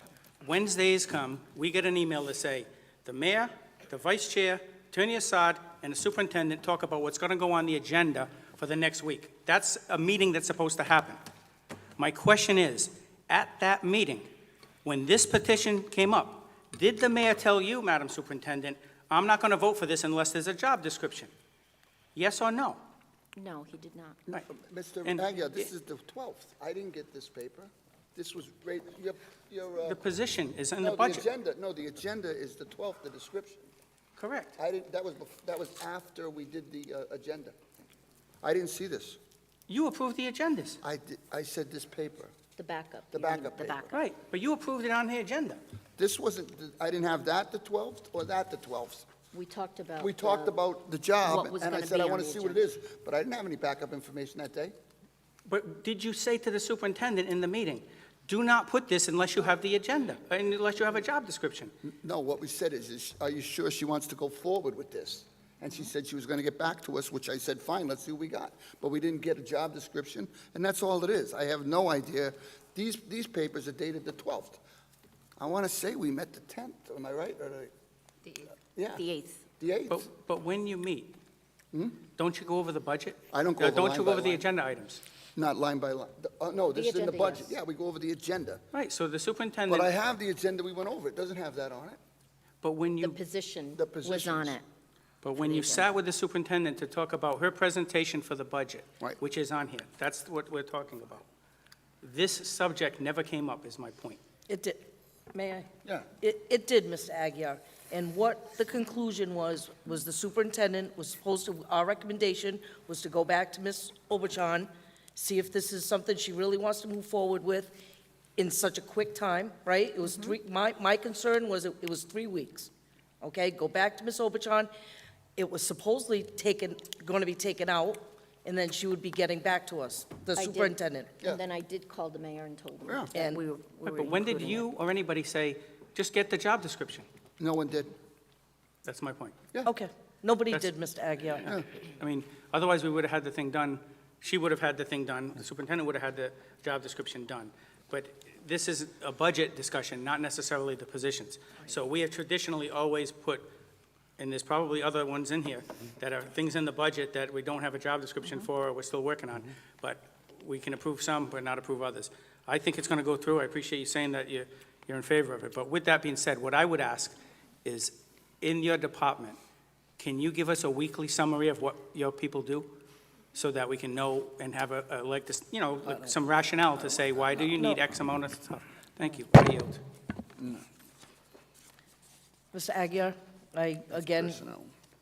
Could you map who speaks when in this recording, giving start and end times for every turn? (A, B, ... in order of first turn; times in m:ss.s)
0:00.4-0:11.2 A
0:12.0-0:14.3 A
0:14.8-0:21.3 A
0:22.2-0:22.8 A
0:23.4-0:24.2 B
0:24.3-0:30.0 C
0:25.0-0:25.6 A
0:29.9-0:31.3 A
0:30.8-0:33.7 C
0:34.2-0:34.5 A
0:34.6-0:37.6 C
0:38.4-0:39.2 C
0:39.7-0:40.8 A
0:40.8-0:42.3 C
0:42.6-0:44.0 B
0:43.1-0:43.9 C
0:43.9-0:45.6 A
0:46.0-0:49.1 C
0:49.3-0:50.5 B
0:50.0-0:54.8 C
0:51.2-0:52.6 B
0:55.5-1:01.7 A
1:02.0-1:14.6 C
1:15.4-1:17.7 C
1:18.3-1:19.4 B
1:18.8-1:19.0 C
1:19.6-1:20.1 C
1:19.9-1:21.2 A
1:21.7-1:22.0 C
1:22.2-1:25.0 A
1:23.3-1:24.5 C
1:25.4-1:28.6 C
1:26.7-1:27.6 B
1:28.7-1:29.9 A
1:29.7-1:32.0 C
1:32.6-1:33.2 A
1:33.0-1:34.6 B
1:33.8-1:34.6 C
1:35.2-1:41.2 A
1:35.4-1:35.9 B
1:42.0-1:44.2 A
1:44.5-1:57.8 D
1:58.4-2:02.7 D
2:00.0-2:00.4 B
2:03.2-2:04.7 D
2:05.4-2:11.3 D
2:10.4-2:14.7 B
2:13.1-2:13.4 D
2:13.8-2:17.1 A
2:17.4-2:17.9 C
2:18.8-2:19.4 A
2:19.6-2:21.5 D
2:20.5-2:20.8 A
2:21.4-2:33.5 A
2:34.2-2:49.4 A
2:50.0-2:52.7 A
2:53.3-2:59.8 A
2:55.9-2:56.1 D
2:57.5-2:57.8 D
3:00.4-3:00.6 C
3:02.5-3:04.4 D
3:04.1-3:04.7 C